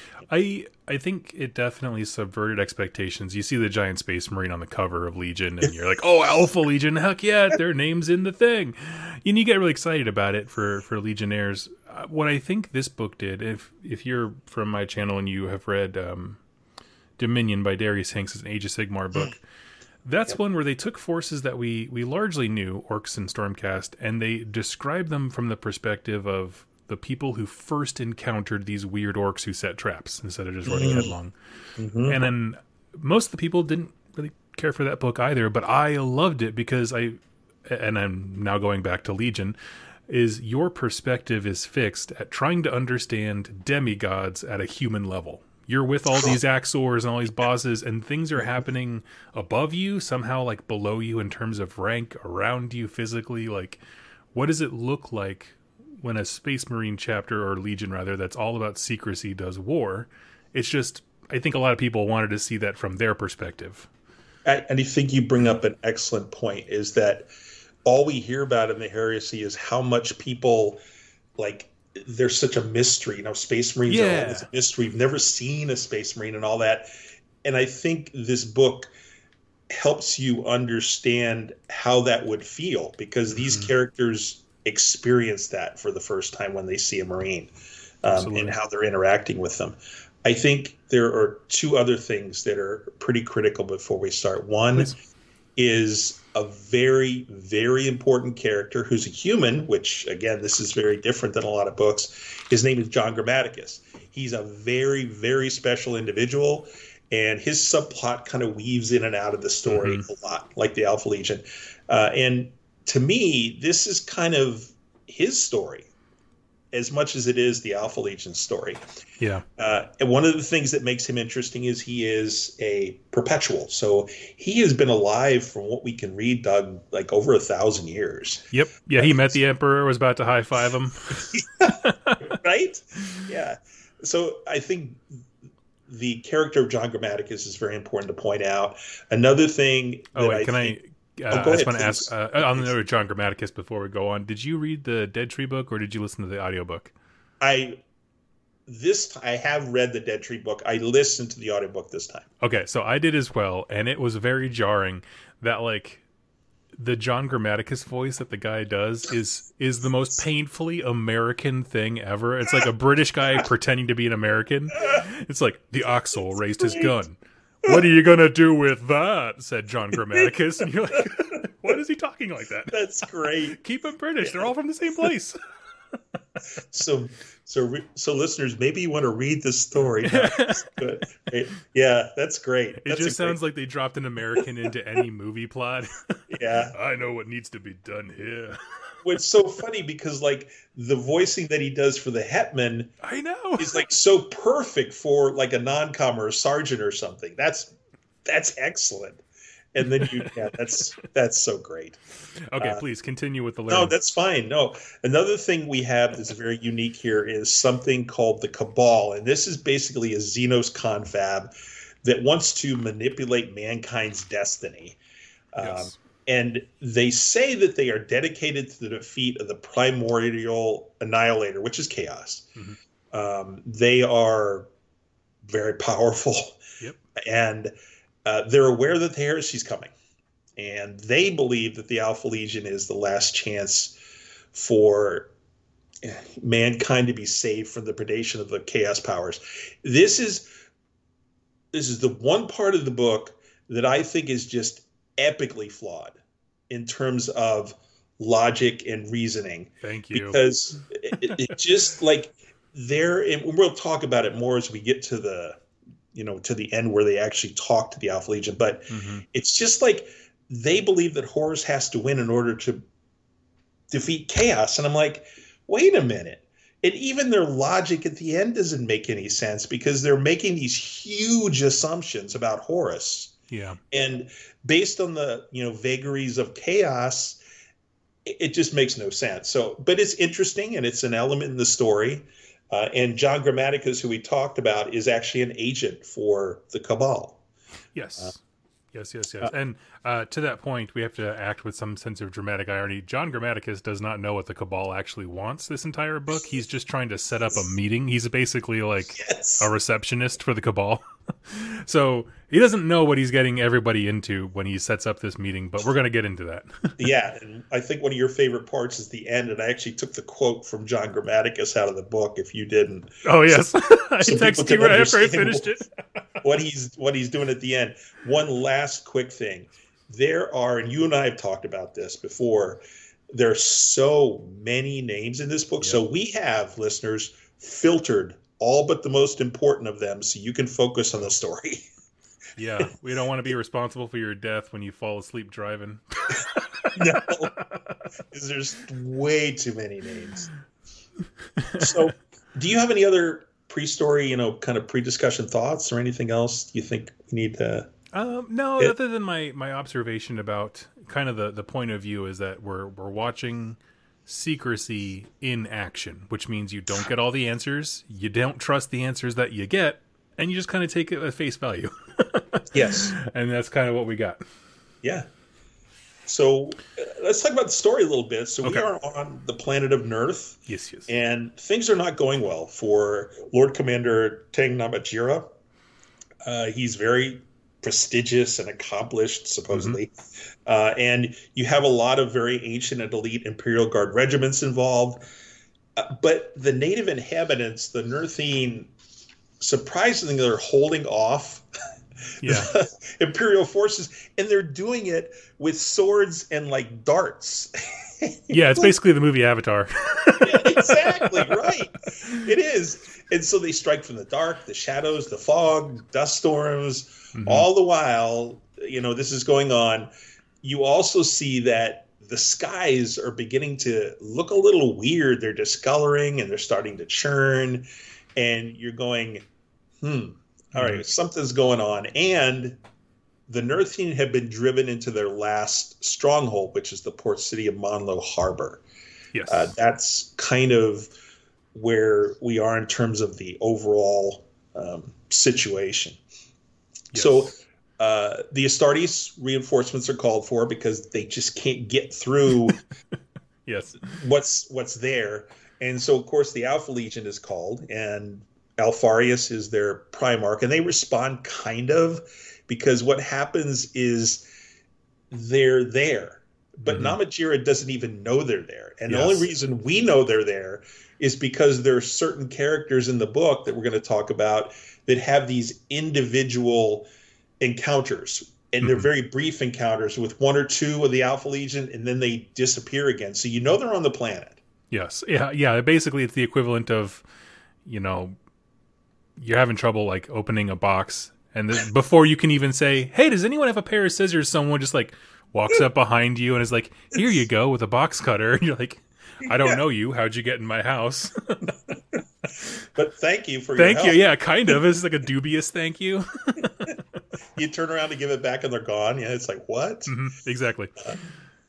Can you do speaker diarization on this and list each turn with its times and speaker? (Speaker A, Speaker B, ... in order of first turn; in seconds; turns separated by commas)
Speaker A: 0.3-16.4, Speaker A: 17.2-19.4, Speaker A: 20.0-31.3, Speaker B: 30.6-31.1, Speaker B: 31.8-32.2, Speaker A: 32.0-39.5, Speaker A: 40.1-53.8, Speaker A: 54.3-63.9, Speaker B: 64.5-67.3, Speaker B: 67.8-70.8, Speaker B: 71.4-76.9, Speaker A: 73.9-74.5, Speaker B: 77.4-78.9, Speaker B: 79.7-87.5, Speaker A: 83.3-83.7, Speaker B: 88.0-94.9, Speaker A: 88.1-88.5, Speaker B: 95.6-115.9, Speaker A: 109.7-110.0, Speaker B: 116.7-118.8, Speaker B: 119.6-129.4, Speaker A: 128.5-132.4, Speaker B: 131.2-135.2, Speaker B: 135.9-140.8, Speaker A: 140.1-146.9, Speaker B: 141.3-142.7, Speaker B: 147.4-147.8, Speaker B: 148.7-152.3, Speaker A: 152.4-156.0, Speaker A: 156.7-172.7, Speaker B: 172.7-173.6, Speaker A: 173.6-175.4, Speaker B: 174.2-174.5, Speaker B: 176.7-183.4, Speaker A: 180.0-180.7, Speaker A: 182.8-188.6, Speaker B: 186.3-186.7, Speaker B: 189.0-192.9, Speaker A: 193.0-193.8, Speaker B: 193.6-197.7, Speaker B: 198.2-202.0, Speaker A: 200.0-200.3, Speaker A: 202.5-203.9, Speaker B: 203.7-211.5, Speaker B: 212.0-215.0, Speaker B: 215.5-222.5, Speaker A: 215.6-215.9, Speaker B: 223.1-224.7, Speaker B: 225.4-226.6, Speaker B: 227.2-227.7, Speaker B: 228.2-229.9, Speaker B: 230.6-233.9, Speaker B: 234.5-235.3, Speaker B: 236.0-240.4, Speaker B: 241.7-246.2, Speaker B: 246.7-255.6, Speaker A: 249.8-250.4, Speaker B: 256.1-262.8, Speaker A: 258.9-259.2, Speaker B: 263.9-273.3, Speaker A: 273.5-273.8, Speaker B: 273.9-277.4, Speaker B: 278.2-287.4, Speaker A: 287.9-288.4, Speaker A: 288.9-306.9, Speaker B: 299.2-299.7, Speaker B: 307.0-313.6, Speaker A: 313.2-315.8, Speaker B: 314.2-315.7, Speaker B: 316.4-331.8, Speaker A: 332.6-337.0, Speaker B: 336.9-337.5, Speaker A: 337.6-338.0, Speaker B: 338.3-340.5, Speaker A: 341.6-342.1, Speaker B: 341.7-347.9, Speaker A: 348.1-364.4, Speaker B: 362.7-363.1, Speaker B: 366.3-375.5, Speaker A: 370.7-371.1, Speaker B: 376.4-380.1, Speaker A: 379.7-380.0, Speaker B: 380.6-385.2, Speaker B: 386.0-388.9, Speaker B: 389.6-391.6, Speaker B: 392.4-398.9, Speaker A: 392.4-392.7, Speaker A: 398.5-401.6, Speaker B: 400.4-410.1, Speaker A: 407.3-407.7, Speaker B: 410.6-419.4, Speaker B: 420.0-422.8, Speaker A: 420.7-421.0, Speaker B: 423.5-428.8, Speaker A: 429.3-429.7, Speaker B: 429.5-431.1, Speaker B: 431.7-436.2, Speaker A: 437.1-437.5, Speaker B: 437.1-442.8, Speaker A: 443.6-444.0, Speaker B: 444.1-454.4, Speaker B: 455.3-467.0, Speaker A: 456.9-457.2, Speaker A: 459.1-459.5, Speaker B: 467.6-474.6, Speaker A: 468.8-469.1, Speaker A: 474.9-477.2, Speaker A: 477.8-478.4, Speaker A: 479.4-491.7, Speaker B: 489.4-489.8, Speaker B: 492.8-494.2, Speaker A: 493.8-497.0, Speaker B: 497.6-500.1, Speaker A: 500.1-500.9